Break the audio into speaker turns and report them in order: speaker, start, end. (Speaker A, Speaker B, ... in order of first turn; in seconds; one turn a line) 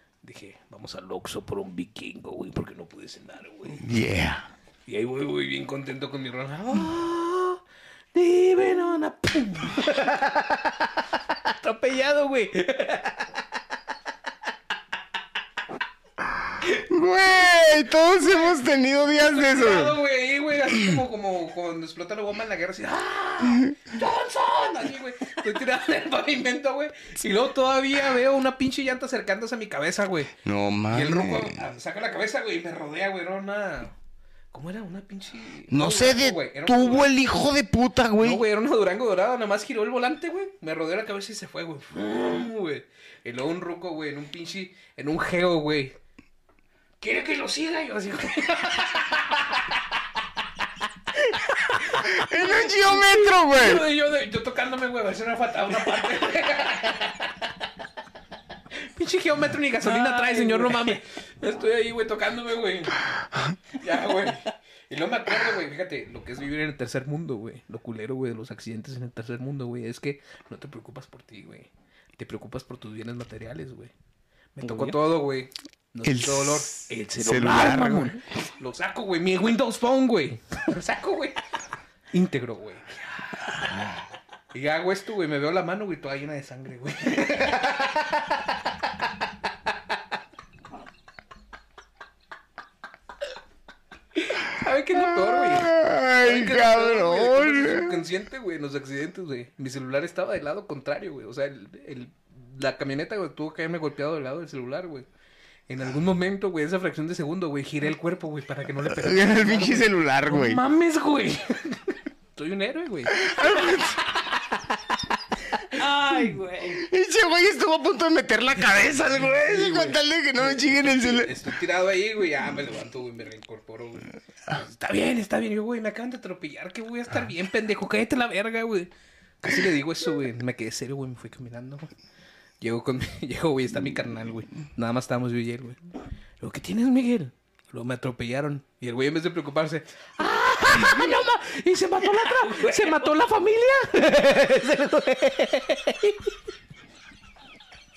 Speaker A: 0.2-3.8
Speaker B: 3.8-4.5
Speaker A: 4.9-7.6
Speaker A: 8.1-13.4
Speaker B: 16.7-20.0
Speaker A: 18.1-18.5
Speaker A: 19.1-30.3
Speaker B: 30.4-31.6
Speaker A: 30.9-33.9
Speaker A: 34.5-37.2
Speaker B: 35.7-38.4
Speaker A: 38.2-45.9
Speaker A: 47.0-49.8
Speaker A: 51.7-57.5
Speaker B: 51.9-53.9
Speaker A: 58.8-73.9
Speaker C: 59.8-61.0
Speaker A: 74.5-81.4
Speaker C: 74.6-75.0
Speaker B: 76.0-78.2
Speaker A: 82.1-83.0
Speaker A: 84.5-88.6
Speaker A: 94.1-105.0
Speaker B: 95.2-98.0
Speaker A: 105.7-113.9
Speaker B: 108.8-110.6
Speaker B: 113.2-114.0
Speaker C: 115.7-116.8
Speaker B: 116.7-121.4
Speaker A: 119.3-128.9
Speaker A: 129.4-131.9
Speaker A: 132.6-135.8
Speaker A: 136.4-146.3